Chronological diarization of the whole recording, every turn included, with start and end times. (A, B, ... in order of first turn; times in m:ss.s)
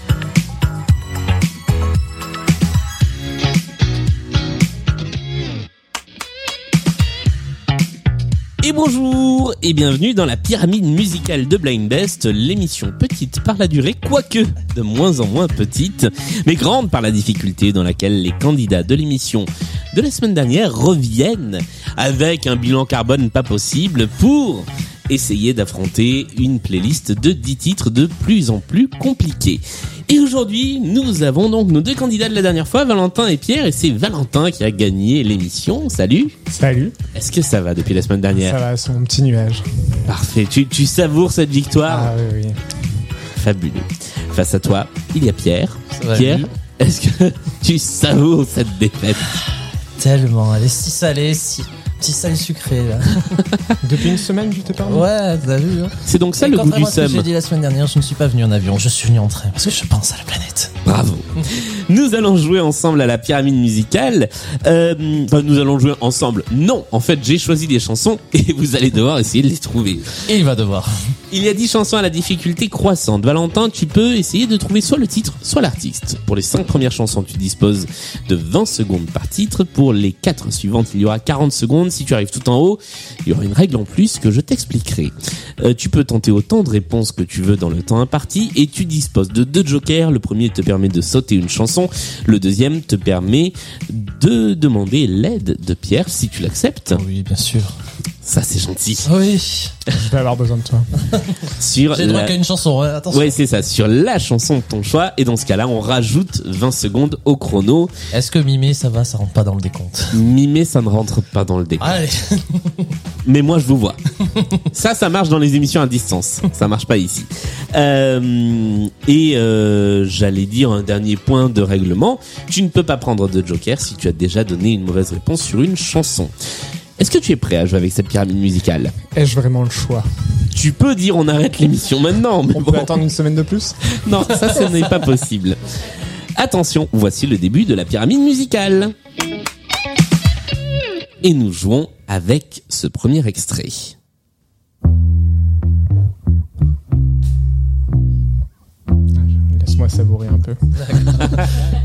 0:08.6-0:36.3 A
0:36.5-0:36.9 B
0:37.1-0:38.6 A
0:38.4-0:39.6 B
0:40.0-0:42.1 A
0:41.8-0:42.6 B
0:43.4-0:49.3 A
0:46.0-0:46.5 C
0:50.0-0:53.4 C
0:53.8-0:55.1 B
0:54.8-1:00.7 C
0:56.0-0:57.3 A
1:00.8-1:10.2 A
1:10.2-1:10.9 C
1:11.3-1:37.0 A
1:36.9-1:37.7 C
1:38.2-1:39.0 A
1:39.0-1:39.7 C
1:40.0-1:40.9 B
1:41.5-1:42.3 A
1:41.9-1:43.4 C
1:43.1-1:47.9 A
1:48.1-1:50.2 C
1:50.1-1:51.9 A
1:51.8-1:53.0 C
1:53.2-1:54.0 A
1:54.7-2:06.3 A
2:07.0-2:09.0 A
2:09.1-2:10.0 B
2:10.5-2:13.0 A
2:12.5-2:13.8 B
2:14.0-2:15.6 A
2:16.4-2:18.9 A
2:21.2-2:24.0 A
2:29.2-2:30.6 B
2:30.9-2:31.4 C